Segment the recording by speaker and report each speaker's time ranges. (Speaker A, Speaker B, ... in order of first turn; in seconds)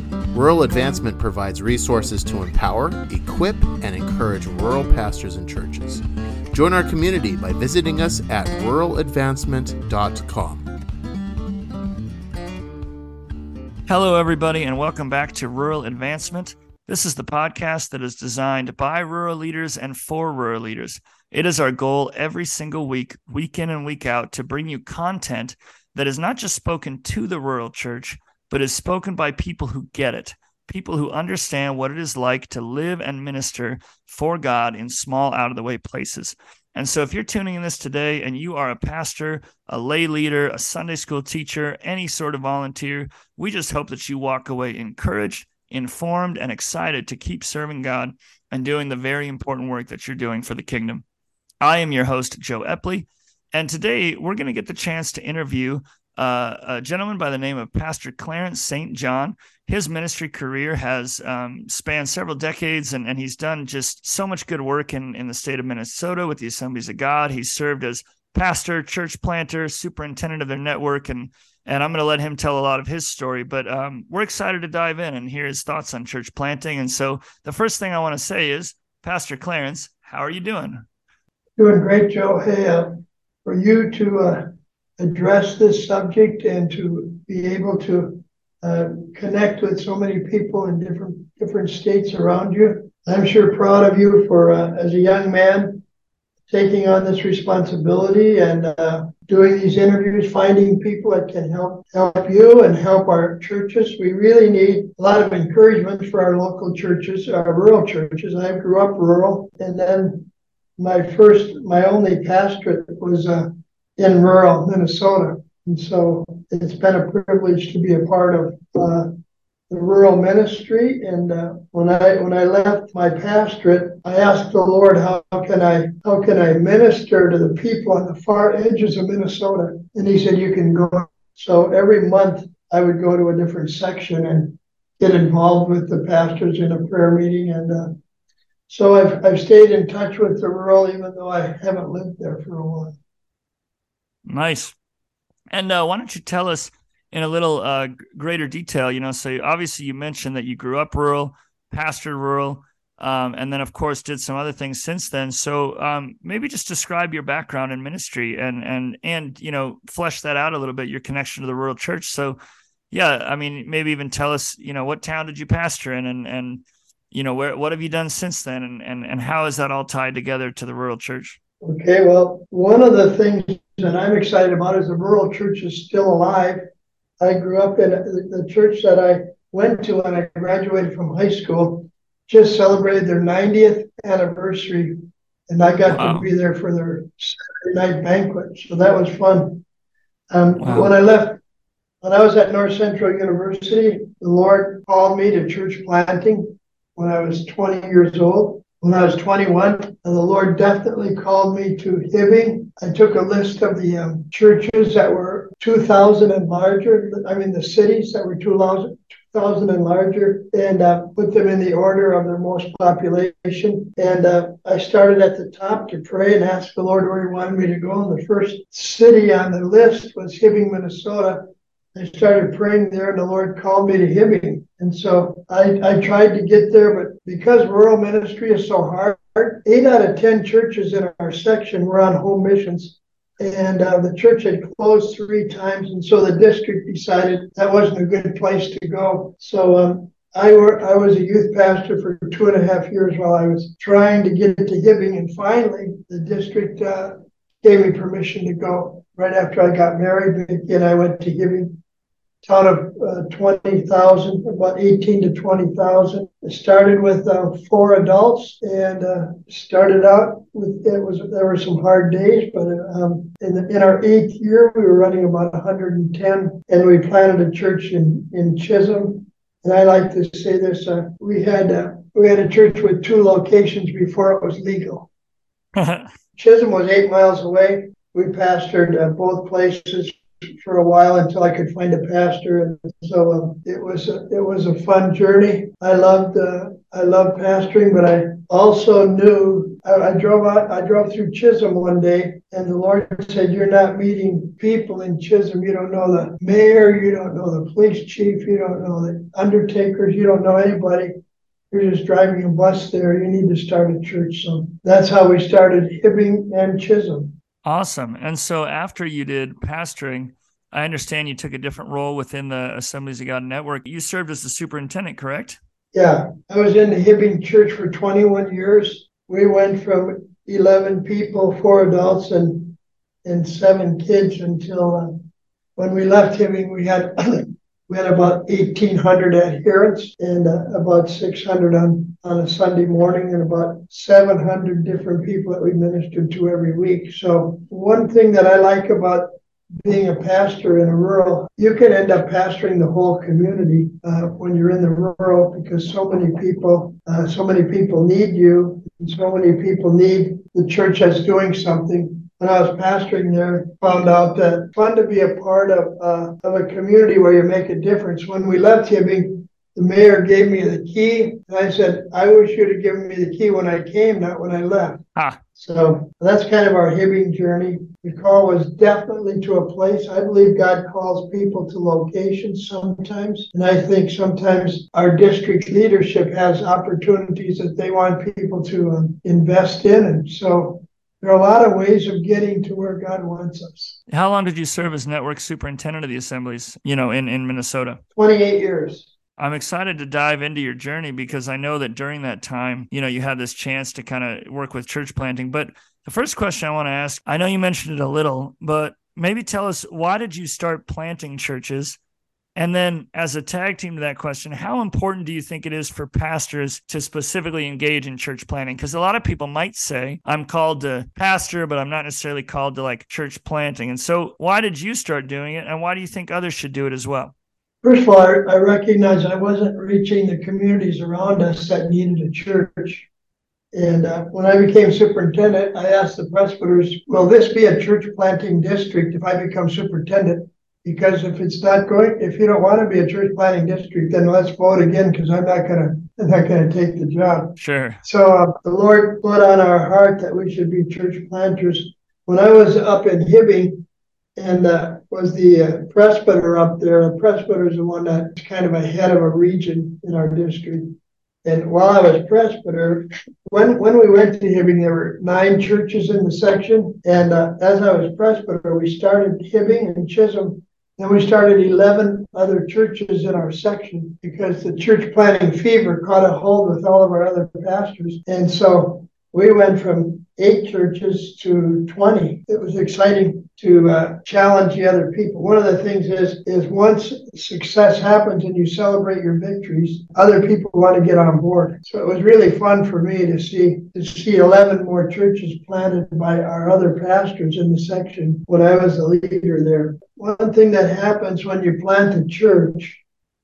Speaker A: 0.3-10.7
Speaker B: 13.9-51.0, 51.6-80.8, 144.2-144.7, 145.5-162.4, 162.9-171.4, 185.9-186.3, 190.6-190.9, 275.7-276.1, 307.6-315.6, 384.1-388.0, 389.4-402.0, 402.6-417.3, 437.6-438.0
Speaker C: 81.6-95.8, 96.5-110.3, 110.8-119.1, 119.7-137.9, 138.7-143.0, 171.6-176.6, 177.2-184.9, 185.5-189.6, 190.3-191.4, 192.0-251.7, 252.4-275.1, 276.4-301.1, 301.7-307.3, 315.9-325.2, 325.8-339.3, 339.8-365.0, 365.5-384.0, 388.1-389.1, 417.8-423.1, 423.7-443.8, 444.4-450.9, 451.4-493.0